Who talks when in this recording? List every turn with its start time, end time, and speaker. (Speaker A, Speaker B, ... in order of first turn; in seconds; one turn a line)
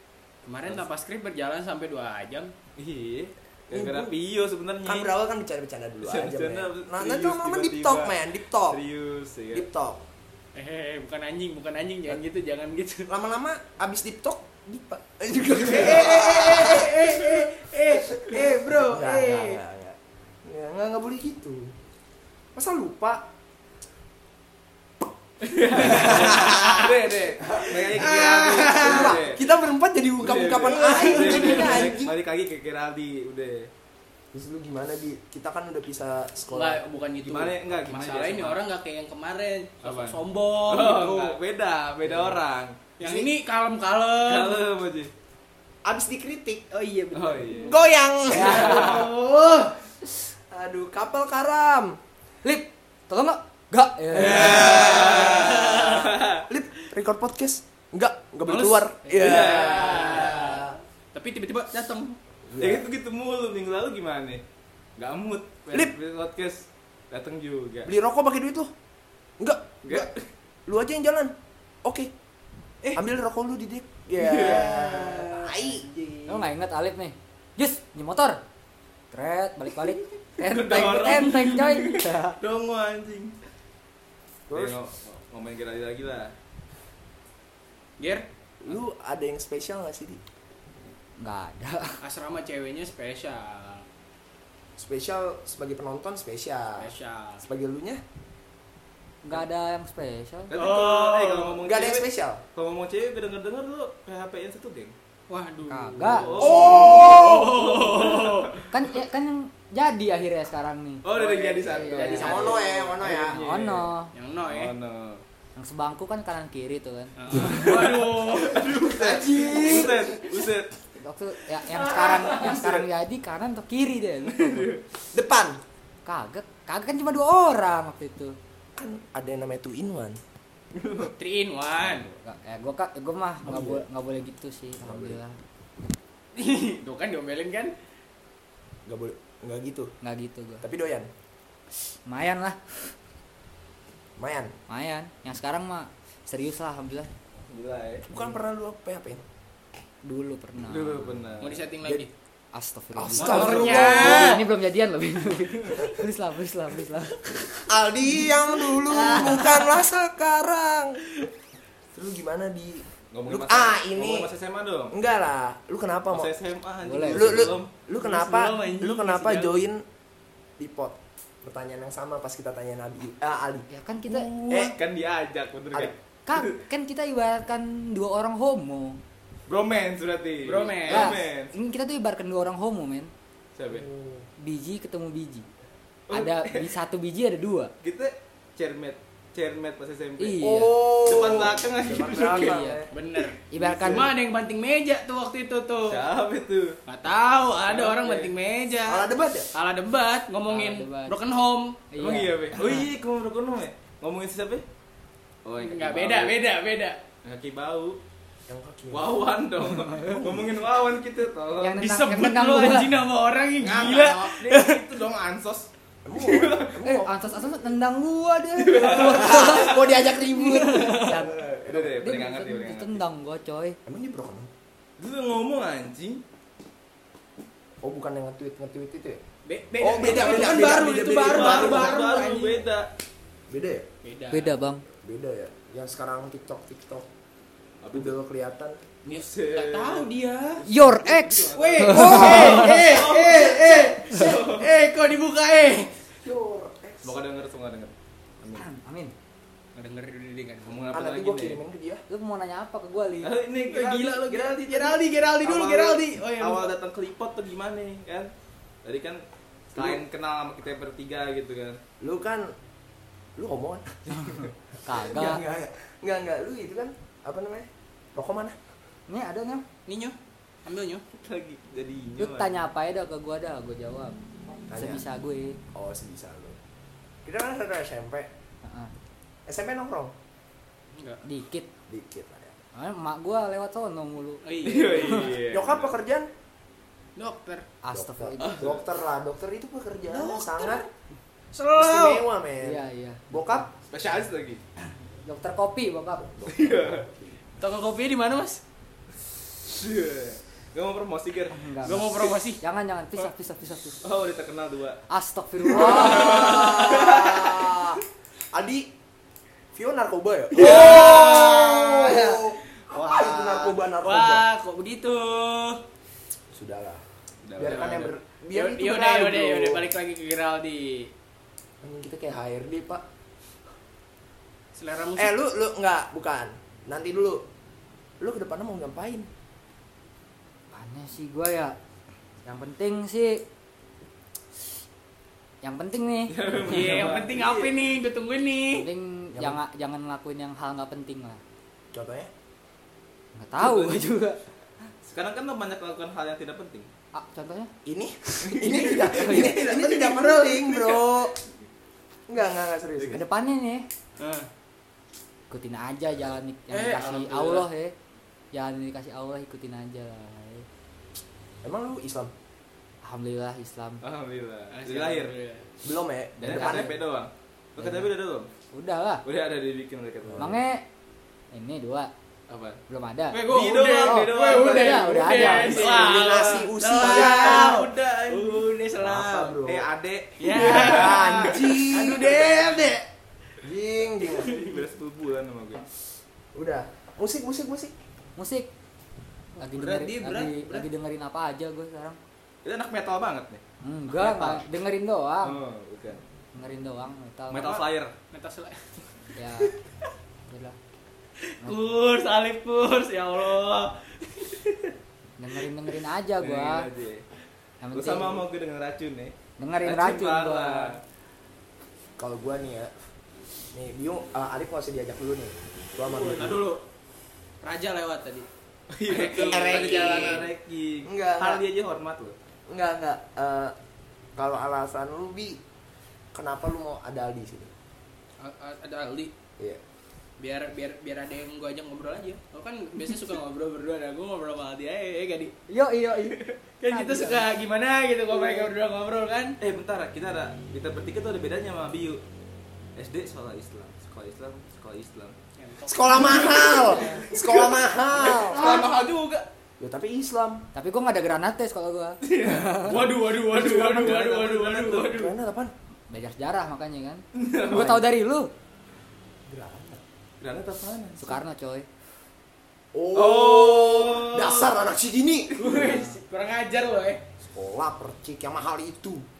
Speaker A: 0.4-2.5
Speaker B: 2.8-5.1
Speaker C: 3.7-4.1
Speaker C: 4.8-8.8
Speaker B: 6.0-9.7
Speaker C: 9.5-10.0
Speaker A: 10.5-13.1
Speaker C: 13.1-17.4
Speaker A: 15.6-19.6
Speaker C: 17.9-21.7
Speaker C: 22.5-23.3
Speaker B: 25.5-29.4
Speaker A: 25.7-26.9
Speaker C: 25.9-26.5
Speaker A: 27.9-29.2
Speaker C: 28.7-32.2
Speaker B: 30.2-33.7
Speaker A: 30.8-31.9
Speaker C: 34.3-36.8
Speaker A: 36.5-41.4
Speaker B: 37.2-38.6
Speaker B: 39.8-42.8
Speaker A: 43.0-44.6
Speaker C: 43.0-43.3
Speaker B: 44.2-45.1
Speaker C: 45.8-46.7
Speaker A: 46.7-49.7
Speaker B: 47.1-47.8
Speaker C: 47.6-49.1
Speaker D: 48.3-49.0
Speaker C: 50.5-52.0
Speaker D: 52.4-54.7
Speaker C: 54.1-60.8
Speaker B: 54.1-56.4
Speaker A: 54.5-56.1
Speaker A: 58.5-62.2
Speaker B: 59.1-60.3
Speaker C: 62.5-62.8
Speaker B: 62.6-64.4
Speaker B: 65.0-67.9
Speaker C: 67.8-68.7
Speaker C: 69.4-70.1
Speaker B: 69.8-70.2
Speaker C: 70.7-72.1
Speaker C: 72.9-75.8
Speaker B: 74.2-74.8
Speaker A: 74.2-76.5
Speaker D: 76.3-78.4
Speaker D: 79.1-82.4
Speaker B: 80.4-83.3
Speaker C: 84.5-84.8
Speaker B: 84.5-86.3
Speaker A: 88.0-88.2
Speaker C: 88.6-90.2
Speaker D: 91.2-92.0
Speaker A: 92.0-93.8
Speaker C: 94.8-98.0
Speaker A: 96.8-97.4
Speaker D: 99.2-100.5
Speaker B: 100.5-104.9
Speaker A: 100.5-101.6
Speaker C: 101.6-102.4
Speaker A: 105.3-108.6
Speaker D: 105.7-106.4
Speaker B: 106.1-108.7
Speaker C: 106.4-107.7
Speaker D: 108.7-111.1
Speaker B: 111.0-113.9
Speaker A: 111.1-112.9
Speaker D: 111.6-112.3
Speaker C: 112.1-113.4
Speaker D: 113.2-114.1
Speaker A: 114.1-114.7
Speaker B: 114.4-115.2
Speaker D: 115.5-117.8
Speaker A: 117.2-118.7
Speaker B: 117.4-120.7
Speaker C: 118.7-120.2
Speaker D: 121.0-124.8
Speaker A: 122.0-122.4
Speaker B: 122.3-122.8
Speaker B: 124.3-124.8
Speaker C: 125.1-125.6
Speaker D: 126.0-128.3
Speaker C: 128.8-130.2
Speaker B: 130.7-131.1
Speaker A: 131.0-132.1
Speaker D: 131.8-135.4
Speaker C: 133.4-133.8
Speaker C: 134.8-135.2
Speaker A: 136.3-137.7
Speaker C: 138.8-139.9
Speaker D: 140.0-140.6
Speaker C: 140.6-141.1
Speaker D: 142.1-142.9
Speaker C: 144.2-144.5
Speaker D: 144.7-147.1
Speaker B: 147.4-148.1
Speaker C: 148.1-149.2
Speaker D: 150.0-151.2
Speaker B: 150.6-151.6
Speaker A: 151.4-152.1
Speaker D: 152.5-157.7
Speaker C: 152.9-154.4
Speaker A: 153.2-154.4
Speaker B: 153.3-153.7
Speaker C: 157.7-161.0
Speaker A: 158.9-159.7
Speaker C: 161.9-164.3
Speaker B: 163.1-164.9
Speaker C: 164.9-166.3
Speaker B: 166.1-167.7
Speaker D: 166.8-167.5
Speaker C: 167.1-169.8
Speaker A: 168.0-169.6
Speaker C: 170.6-174.8
Speaker D: 173.7-174.7
Speaker B: 174.5-176.5
Speaker D: 176.3-179.0
Speaker B: 179.5-181.5
Speaker A: 180.4-181.2
Speaker D: 180.8-183.1
Speaker B: 183.6-183.9
Speaker C: 183.7-184.2
Speaker D: 184.4-185.5
Speaker B: 186.1-186.7
Speaker D: 186.1-187.7
Speaker B: 187.8-190.4
Speaker D: 190.2-190.9
Speaker C: 190.4-192.9
Speaker B: 191.0-192.6
Speaker D: 192.2-192.8
Speaker A: 192.9-196.0
Speaker D: 193.5-194.1
Speaker C: 193.6-194.0
Speaker B: 195.8-196.8
Speaker A: 196.8-202.0
Speaker B: 197.6-198.3
Speaker C: 198.8-199.5
Speaker D: 200.5-201.2
Speaker D: 201.9-202.9
Speaker B: 202.0-204.6
Speaker B: 205.4-206.4
Speaker A: 205.6-207.0
Speaker B: 207.2-208.0
Speaker C: 208.5-209.1
Speaker B: 208.9-211.8
Speaker C: 209.9-210.5
Speaker D: 211.6-212.9
Speaker A: 211.8-214.8
Speaker B: 213.6-216.7
Speaker C: 216.0-217.6
Speaker D: 216.8-219.8
Speaker B: 218.6-220.0
Speaker C: 218.7-221.2
Speaker A: 220.3-221.2
Speaker D: 220.9-223.8
Speaker B: 221.4-223.0
Speaker C: 223.8-224.5
Speaker B: 225.0-226.2
Speaker C: 227.8-229.2
Speaker A: 229.4-232.6
Speaker C: 229.8-232.1
Speaker B: 230.1-232.9
Speaker C: 233.5-233.9
Speaker A: 234.0-234.6
Speaker D: 234.3-234.8
Speaker C: 235.0-237.1
Speaker B: 237.8-238.2
Speaker C: 237.9-238.8
Speaker A: 239.1-240.6
Speaker B: 239.1-244.7
Speaker D: 240.6-242.7
Speaker A: 241.5-245.9
Speaker C: 241.8-242.9
Speaker C: 246.2-247.2
Speaker B: 247.0-248.7
Speaker D: 248.5-249.1
Speaker A: 249.7-250.8
Speaker B: 250.6-251.6
Speaker C: 250.9-252.0
Speaker D: 252.1-253.3
Speaker B: 253.2-258.3
Speaker A: 253.6-256.7
Speaker B: 258.8-259.2
Speaker C: 259.7-260.0
Speaker B: 259.7-261.8
Speaker C: 262.0-262.5
Speaker C: 263.4-264.2
Speaker D: 264.8-265.4
Speaker C: 264.9-268.6
Speaker D: 269.1-269.6
Speaker A: 269.9-271.0
Speaker B: 271.2-272.5
Speaker D: 272.2-274.1
Speaker C: 274.5-275.0
Speaker D: 274.7-275.6
Speaker C: 275.7-276.6
Speaker C: 277.2-278.3
Speaker D: 278.6-278.9
Speaker C: 279.5-280.1
Speaker A: 280.9-281.2
Speaker D: 281.2-281.7
Speaker C: 281.9-282.6
Speaker D: 282.7-284.4
Speaker A: 284.4-285.4
Speaker B: 284.6-285.9
Speaker C: 285.5-286.3
Speaker A: 287.1-287.6
Speaker D: 287.8-288.7
Speaker C: 287.9-290.9
Speaker B: 288.4-288.8
Speaker A: 290.1-290.9
Speaker A: 291.5-292.2
Speaker C: 291.8-293.7
Speaker D: 292.6-293.6
Speaker B: 293.9-294.6
Speaker D: 295.2-296.3
Speaker C: 296.2-297.4
Speaker B: 296.5-297.1
Speaker A: 297.6-298.6
Speaker B: 299.6-302.3
Speaker D: 301.5-304.0
Speaker A: 301.8-302.6
Speaker B: 304.0-305.0
Speaker D: 305.1-306.6
Speaker B: 305.7-307.9
Speaker C: 305.7-308.9
Speaker C: 309.7-314.4
Speaker A: 310.5-315.8
Speaker B: 310.6-311.2
Speaker C: 316.5-317.0
Speaker B: 317.4-318.1
Speaker C: 317.6-319.9
Speaker A: 318.5-321.1
Speaker C: 321.8-323.0
Speaker A: 324.7-325.3
Speaker C: 325.1-327.4
Speaker C: 328.2-329.3
Speaker D: 330.7-331.8
Speaker D: 332.4-333.4
Speaker D: 335.6-336.3
Speaker B: 336.3-337.7
Speaker A: 336.6-338.9
Speaker D: 338.8-341.4
Speaker C: 341.9-342.3
Speaker D: 343.3-344.4
Speaker B: 343.6-344.1
Speaker B: 345.0-346.9
Speaker D: 347.1-347.7
Speaker C: 347.8-351.4
Speaker B: 348.4-351.0
Speaker D: 349.0-349.6
Speaker C: 352.3-353.2
Speaker D: 353.1-353.9
Speaker A: 354.2-354.5
Speaker D: 355.5-357.9
Speaker A: 356.7-357.7
Speaker D: 358.5-360.6
Speaker C: 361.6-362.3
Speaker D: 363.0-364.0
Speaker B: 364.0-365.3
Speaker A: 364.7-365.7
Speaker C: 365.8-366.9
Speaker B: 366.4-368.5
Speaker D: 367.8-368.1
Speaker D: 368.7-369.2
Speaker B: 369.2-370.6
Speaker D: 370.4-370.8
Speaker D: 371.5-372.1
Speaker B: 372.5-372.8
Speaker D: 372.9-373.4
Speaker A: 373.3-379.6
Speaker B: 373.4-378.7
Speaker D: 374.0-375.9
Speaker C: 375.8-377.8
Speaker C: 379.0-379.9
Speaker B: 379.6-382.8
Speaker A: 380.4-383.0
Speaker C: 380.5-382.4
Speaker C: 383.6-384.6
Speaker B: 384.3-385.8
Speaker A: 384.5-384.8
Speaker C: 386.5-387.9
Speaker D: 388.4-388.7
Speaker D: 389.6-392.2
Speaker A: 389.6-390.9
Speaker B: 392.6-394.6
Speaker D: 393.8-395.6
Speaker B: 395.4-396.2
Speaker D: 396.5-397.8
Speaker B: 397.5-398.1
Speaker A: 397.6-398.9
Speaker D: 399.4-399.7
Speaker D: 400.5-400.8
Speaker A: 401.6-404.6
Speaker D: 405.4-406.9
Speaker B: 406.4-407.2
Speaker D: 407.8-408.4
Speaker B: 407.9-411.0
Speaker D: 409.6-410.9
Speaker C: 412.2-412.9
Speaker C: 413.7-416.6
Speaker A: 416.0-416.8
Speaker A: 417.6-418.5
Speaker B: 418.9-422.3
Speaker A: 419.1-420.5
Speaker C: 419.3-420.5
Speaker C: 421.0-421.6
Speaker C: 422.7-423.8
Speaker C: 424.4-425.6
Speaker C: 426.3-427.7
Speaker A: 428.4-429.3
Speaker A: 430.4-435.5
Speaker D: 435.7-437.5
Speaker A: 436.8-439.6
Speaker B: 438.3-438.7
Speaker B: 439.6-442.2
Speaker B: 442.9-445.4
Speaker A: 445.6-447.2
Speaker C: 445.8-448.7
Speaker B: 446.1-449.5
Speaker A: 448.3-449.0
Speaker C: 449.8-450.6
Speaker D: 450.7-452.9
Speaker B: 452.2-455.3
Speaker A: 452.8-455.3
Speaker C: 455.1-455.7
Speaker D: 456.1-458.5
Speaker B: 457.3-458.0
Speaker C: 459.5-460.0
Speaker B: 460.4-461.4
Speaker D: 461.2-461.9
Speaker C: 462.9-465.5
Speaker B: 463.1-464.7
Speaker A: 465.6-467.2
Speaker D: 465.7-466.2
Speaker C: 467.4-469.2